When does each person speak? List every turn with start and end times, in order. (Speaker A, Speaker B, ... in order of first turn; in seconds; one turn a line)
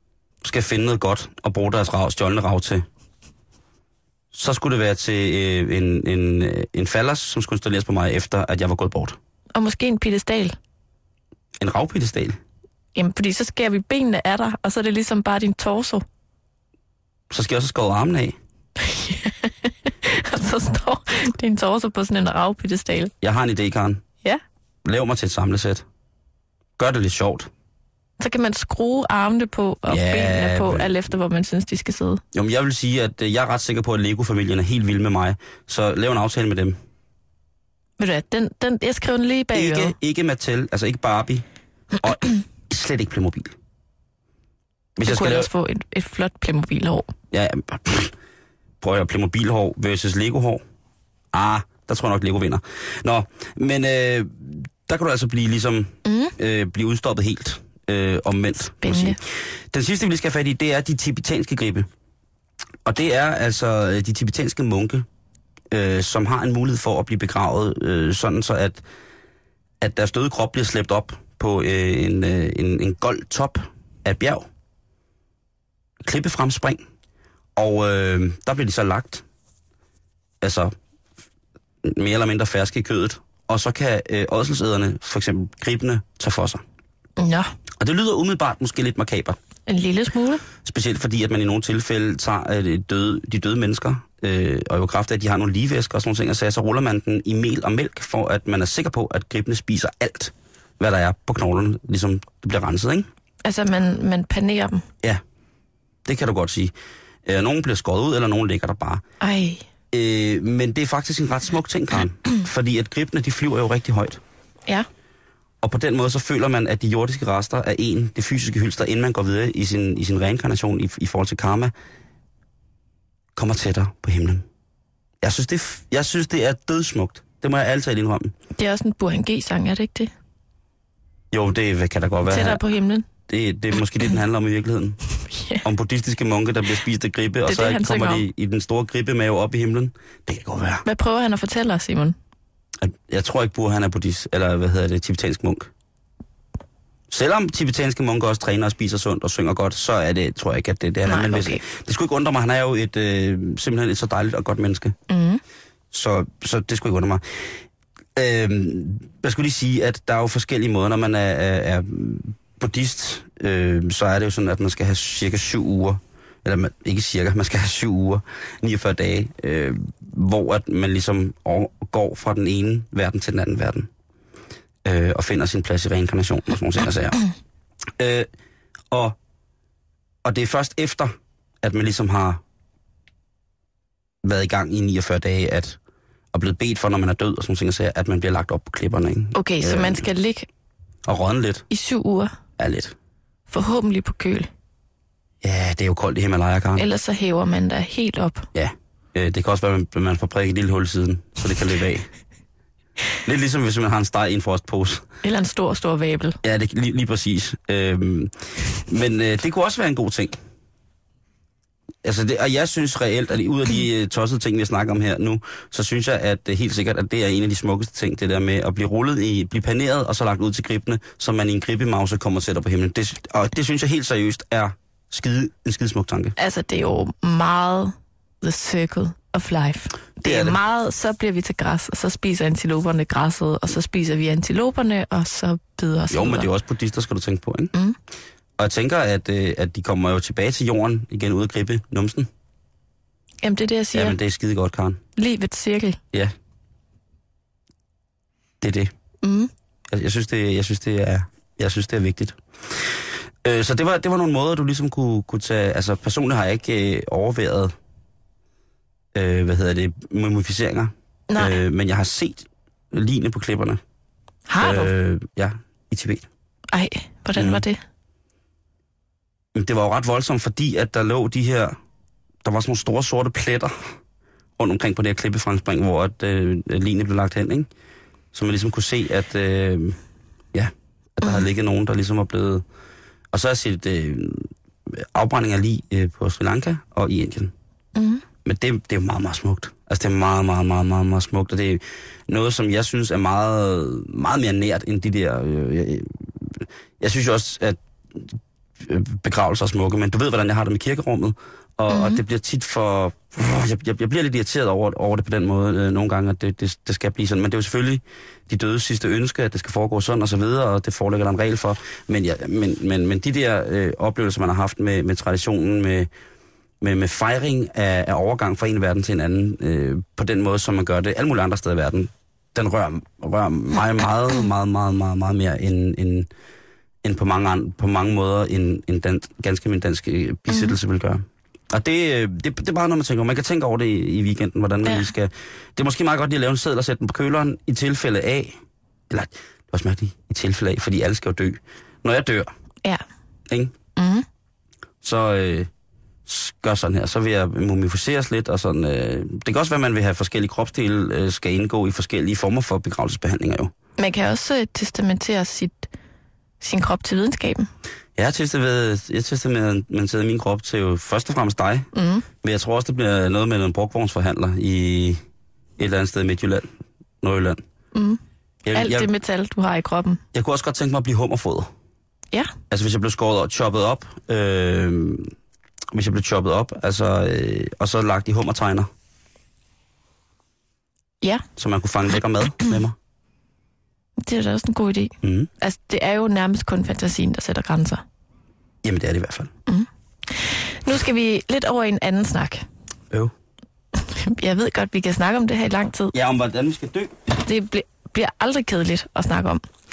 Speaker A: 0.4-2.9
Speaker A: 4.3-9.2
Speaker B: 9.5-10.5
Speaker A: 11.6-12.4
Speaker B: 12.9-16.0
Speaker A: 17.3-18.4
Speaker B: 18.8-23.1
Speaker A: 23.2-24.0
Speaker A: 24.8-25.8
Speaker A: 26.8-27.5
Speaker B: 28.2-32.2
Speaker A: 29.9-30.9
Speaker A: 32.3-36.8
Speaker B: 38.0-39.9
Speaker A: 39.5-41.4
Speaker A: 42.0-43.5
Speaker A: 45.0-45.5
Speaker B: 45.0-47.1
Speaker A: 47.3-48.1
Speaker A: 48.8-50.6
Speaker A: 51.3-59.2
Speaker B: 56.0-56.3
Speaker B: 58.8-59.2
Speaker A: 59.7-61.9
Speaker A: 62.8-65.0
Speaker A: 65.7-68.8
Speaker A: 69.8-74.5
Speaker A: 76.0-76.8
Speaker A: 77.5-79.2
Speaker A: 80.4-80.7
Speaker A: 81.8-86.6
Speaker B: 87.2-87.5
Speaker A: 87.8-89.4
Speaker B: 89.7-90.4
Speaker A: 90.6-103.1
Speaker B: 103.4-104.8
Speaker A: 106.0-106.7
Speaker A: 107.2-109.0
Speaker B: 109.2-109.6
Speaker A: 109.9-114.2
Speaker A: 115.6-121.7
Speaker A: 123.3-124.4
Speaker A: 125.2-128.3
Speaker B: 128.6-130.1
Speaker A: 131.3-132.6
Speaker B: 132.2-133.0
Speaker A: 133.3-135.0
Speaker B: 135.3-135.6
Speaker A: 135.6-140.8
Speaker B: 137.4-138.2
Speaker B: 140.8-142.2
Speaker A: 142.8-145.7
Speaker A: 147.1-154.9
Speaker B: 151.1-151.6
Speaker B: 155.1-155.4
Speaker A: 155.9-157.4
Speaker A: 158.1-173.9
Speaker A: 174.8-177.2
Speaker A: 178.0-178.3
Speaker A: 178.9-179.2
Speaker A: 180.2-182.4
Speaker A: 184.2-185.8
Speaker A: 186.3-190.1
Speaker B: 189.3-190.5
Speaker A: 191.0-191.7
Speaker B: 191.7-192.3
Speaker A: 192.6-192.9
Speaker B: 193.5-194.5
Speaker A: 195.4-196.8
Speaker B: 196.8-198.5
Speaker A: 198.5-202.1
Speaker A: 203.2-205.1
Speaker B: 205.2-206.4
Speaker A: 206.4-208.3
Speaker A: 208.8-210.3
Speaker A: 212.0-226.3
Speaker B: 226.4-236.5
Speaker A: 230.2-230.6
Speaker A: 236.1-237.7
Speaker A: 238.6-242.3
Speaker B: 243.4-244.2
Speaker A: 243.9-245.0
Speaker B: 245.2-246.0
Speaker A: 248.6-248.9
Speaker B: 249.2-249.5
Speaker A: 249.9-252.4
Speaker A: 253.4-257.7
Speaker A: 259.1-263.8
Speaker B: 261.3-261.6
Speaker B: 264.5-264.9
Speaker A: 264.6-266.3
Speaker B: 266.7-267.8
Speaker A: 267.3-267.6
Speaker A: 269.5-271.8
Speaker A: 272.4-273.8
Speaker A: 274.6-277.7
Speaker A: 278.3-280.0
Speaker A: 280.5-282.6
Speaker A: 283.3-287.5
Speaker B: 287.9-288.2
Speaker A: 288.4-316.1
Speaker B: 301.9-302.2
Speaker A: 316.8-326.3
Speaker A: 327.0-338.6
Speaker B: 330.5-330.7
Speaker A: 339.1-342.5
Speaker A: 343.5-343.7
Speaker B: 344.0-344.2
Speaker A: 345.0-345.7
Speaker A: 346.2-353.7
Speaker B: 354.0-355.9
Speaker B: 356.6-357.7
Speaker A: 358.1-361.9
Speaker B: 361.9-362.2
Speaker A: 362.4-365.2
Speaker A: 365.8-366.7
Speaker A: 367.2-367.6
Speaker B: 367.9-368.2
Speaker A: 368.6-369.1
Speaker B: 368.7-370.2
Speaker A: 370.3-371.7
Speaker A: 372.7-375.3
Speaker A: 375.9-378.9
Speaker A: 381.6-382.9
Speaker B: 384.2-388.0
Speaker A: 385.2-385.5
Speaker A: 388.8-389.5
Speaker B: 389.7-392.6
Speaker B: 393.9-396.1
Speaker A: 396.1-397.1
Speaker B: 397.4-399.6